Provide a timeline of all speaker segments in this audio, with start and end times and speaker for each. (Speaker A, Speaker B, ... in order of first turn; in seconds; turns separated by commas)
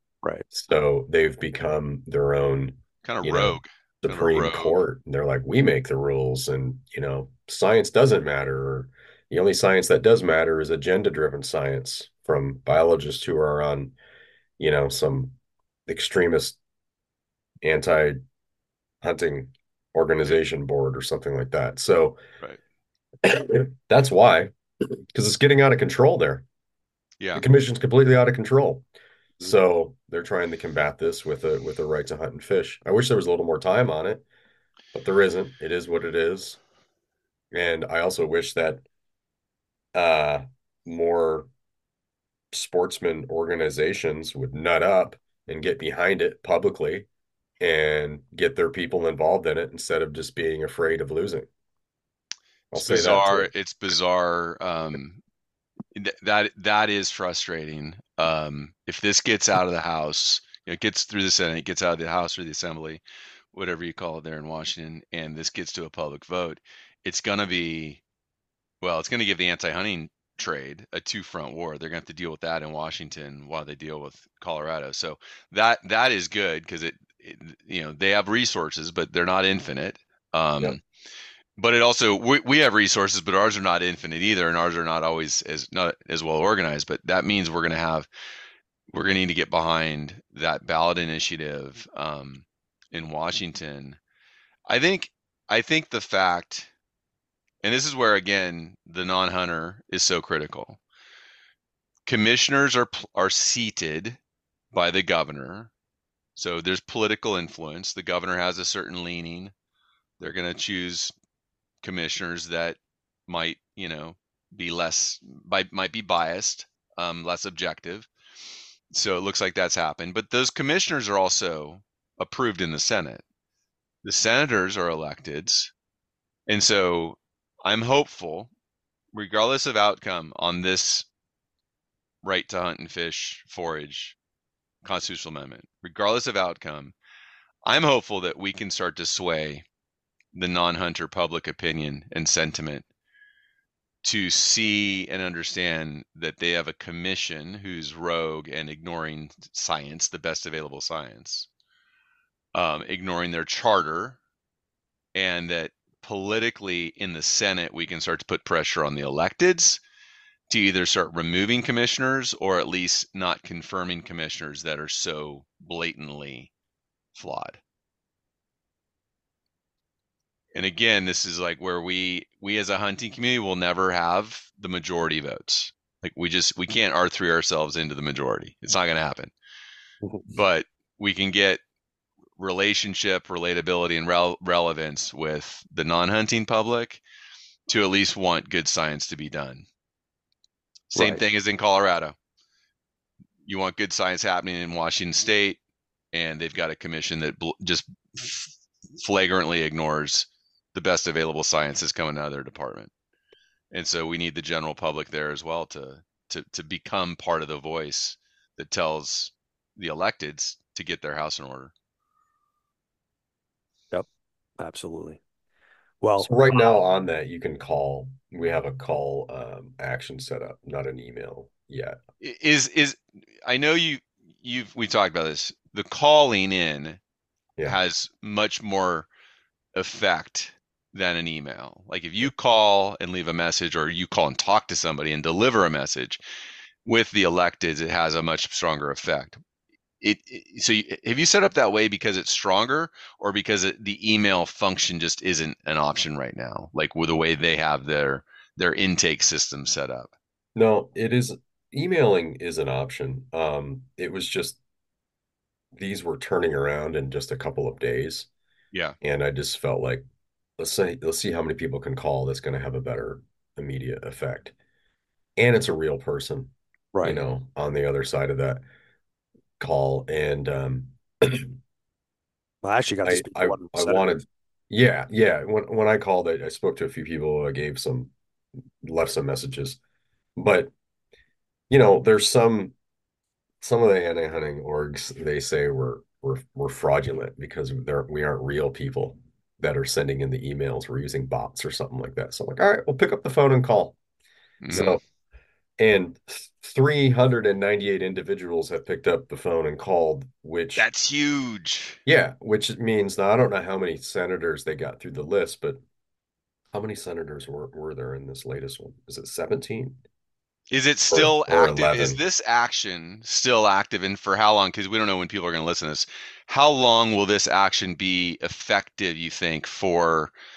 Speaker A: 0.5-13.9, Speaker B: 3.0-4.8, Speaker A: 14.6-15.3, Speaker A: 15.9-16.6, Speaker A: 17.6-18.2, Speaker A: 19.0-22.2, Speaker A: 23.2-24.5, Speaker A: 25.1-26.4, Speaker A: 27.3-28.9, Speaker A: 29.4-34.2, Speaker A: 34.9-36.6, Speaker A: 37.5-38.8, Speaker A: 39.9-41.5, Speaker A: 42.5-47.1, Speaker A: 47.6-51.5, Speaker A: 52.7-53.5, Speaker B: 52.7-55.2, Speaker B: 55.9-63.0, Speaker B: 63.5-68.0, Speaker B: 68.8-80.8, Speaker B: 81.6-88.1, Speaker B: 88.9-94.0, Speaker B: 94.7-96.7, Speaker B: 97.6-100.8, Speaker B: 102.0-104.2, Speaker B: 104.7-105.7, Speaker B: 106.3-109.5, Speaker B: 110.2-111.1, Speaker B: 111.8-118.1, Speaker B: 118.9-123.2, Speaker B: 124.0-125.7, Speaker B: 126.5-128.5, Speaker B: 129.1-131.1, Speaker B: 132.2-134.2, Speaker B: 134.8-136.9, Speaker B: 137.6-139.6, Speaker B: 140.3-142.8, Speaker B: 144.0-151.5, Speaker B: 152.5-154.2, Speaker B: 155.1-159.8, Speaker B: 160.5-166.5, Speaker B: 167.2-167.6, Speaker B: 170.5-179.3, Speaker B: 180.3-181.6, Speaker B: 182.4-187.0, Speaker B: 187.7-189.7, Speaker B: 190.9-192.1, Speaker C: 190.9-191.2, Speaker B: 193.4-195.6, Speaker B: 196.1-202.9, Speaker B: 203.7-211.7, Speaker C: 214.6-215.2, Speaker C: 216.0-216.6, Speaker A: 216.2-222.0, Speaker B: 222.2-227.0, Speaker B: 227.6-229.1, Speaker B: 229.7-236.2, Speaker B: 236.8-239.4, Speaker B: 240.0-250.1, Speaker A: 250.6-254.6, Speaker A: 255.7-258.3, Speaker A: 259.0-260.0, Speaker A: 260.6-264.5, Speaker A: 265.4-268.6, Speaker C: 266.9-267.2, Speaker A: 269.6-271.5, Speaker C: 272.6-274.1, Speaker A: 273.0-278.1, Speaker A: 278.8-279.8, Speaker A: 280.4-280.7, Speaker A: 281.7-282.7, Speaker A: 283.6-294.0, Speaker B: 294.6-295.0, Speaker A: 294.7-295.0, Speaker A: 295.8-300.9, Speaker B: 300.8-302.0, Speaker A: 302.1-305.8, Speaker A: 306.7-310.0, Speaker B: 310.7-320.3, Speaker A: 311.1-312.2